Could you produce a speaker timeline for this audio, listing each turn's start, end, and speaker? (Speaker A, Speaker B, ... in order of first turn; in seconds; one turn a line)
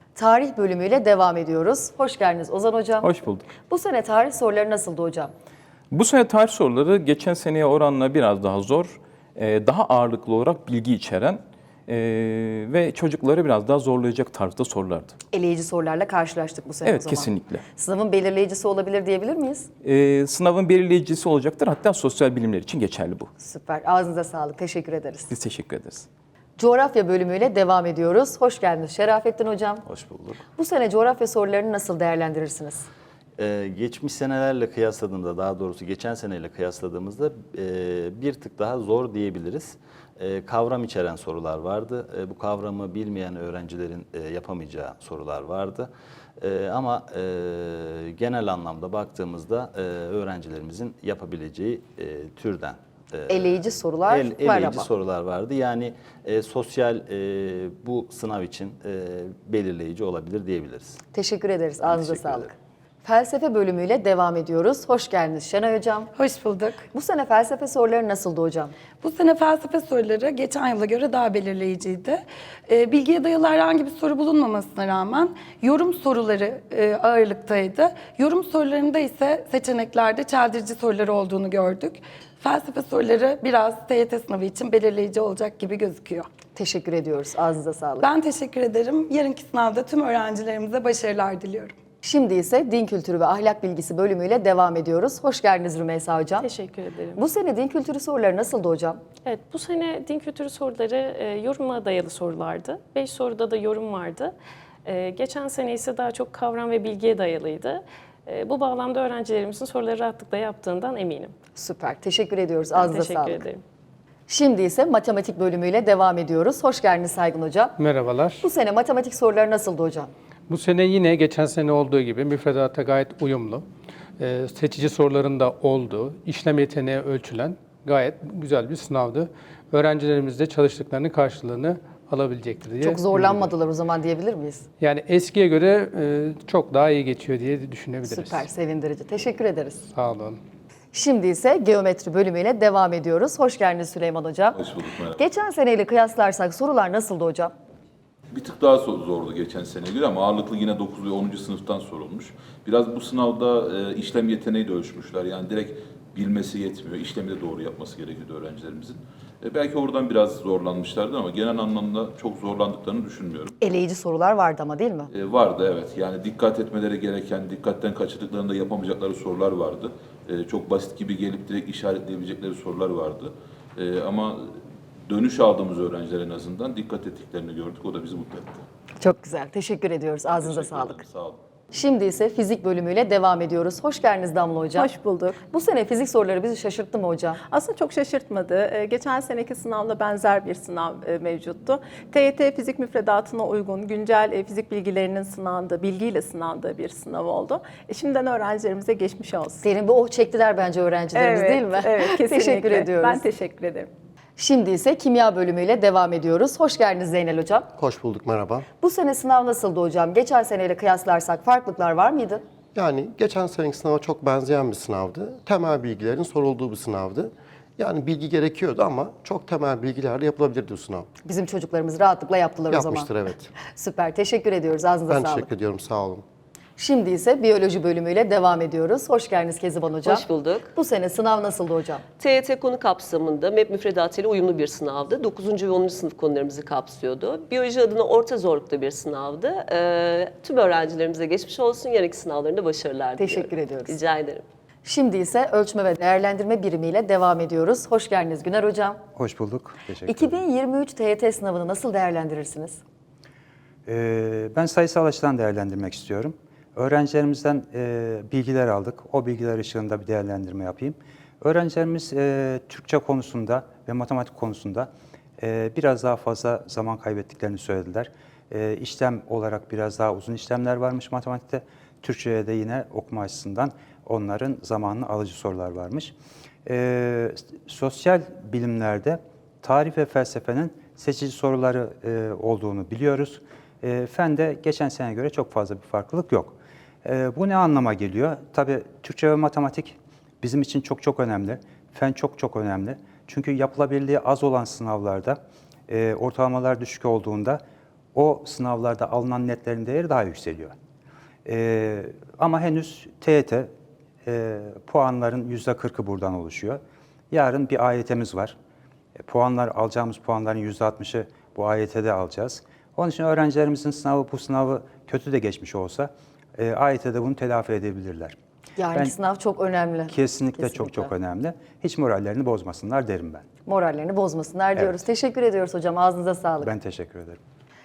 Speaker A: 0.2-3.1
Speaker B: 3.0-3.5
Speaker A: 3.7-5.3
Speaker B: 5.9-15.2
Speaker A: 15.3-19.7
Speaker B: 16.8-17.6
Speaker B: 19.8-23.3
Speaker A: 23.4-25.3
Speaker B: 25.3-26.1
Speaker A: 26.6-29.8
Speaker C: 29.9-30.4
Speaker A: 30.6-32.9
Speaker C: 33.4-61.0
Speaker A: 53.3-54.9
Speaker A: 61.1-62.5
Speaker C: 61.9-62.5
Speaker A: 63.0-66.1
Speaker D: 66.2-66.8
Speaker A: 66.9-68.7
Speaker D: 69.0-86.3
Speaker A: 86.6-88.1
Speaker D: 88.0-91.8
Speaker A: 92.0-96.5
Speaker E: 96.4-97.0
Speaker A: 97.2-99.0
Speaker E: 99.3-104.3
Speaker E: 104.9-107.7
Speaker E: 108.3-111.3
Speaker A: 111.6-113.5
Speaker E: 112.8-113.4
Speaker A: 114.3-117.8
Speaker F: 117.8-118.4
Speaker A: 118.4-120.1
Speaker F: 120.5-123.6
Speaker F: 124.2-133.5
Speaker A: 132.8-134.7
Speaker F: 134.8-138.4
Speaker A: 138.0-139.8
Speaker F: 139.9-140.4
Speaker A: 140.9-144.6
Speaker G: 144.5-145.2
Speaker A: 145.2-147.5
Speaker G: 148.3-163.6
Speaker A: 163.6-165.1
Speaker G: 165.1-174.4
Speaker G: 175.1-178.6
Speaker A: 179.0-181.0
Speaker G: 180.3-181.4
Speaker A: 181.7-187.4
Speaker H: 184.7-185.4
Speaker H: 187.5-199.7
Speaker A: 199.6-203.3
Speaker H: 201.1-203.9
Speaker A: 204.4-207.7
Speaker I: 207.8-208.7
Speaker A: 208.8-212.4
Speaker I: 212.7-221.1
Speaker A: 221.2-225.5
Speaker I: 222.7-223.6
Speaker I: 225.1-226.2
Speaker A: 226.8-232.0
Speaker J: 230.0-230.8
Speaker J: 232.2-244.4
Speaker A: 243.2-243.9
Speaker A: 244.8-249.0
Speaker K: 249.2-250.4
Speaker A: 250.1-252.8
Speaker K: 253.9-276.1
Speaker K: 276.7-297.6
Speaker K: 298.1-300.7
Speaker K: 301.4-303.7
Speaker K: 304.2-308.6
Speaker K: 309.2-318.4
Speaker A: 318.8-321.1
Speaker K: 320.1-323.5
Speaker A: 323.7-326.7
Speaker K: 324.8-325.0
Speaker K: 326.6-327.4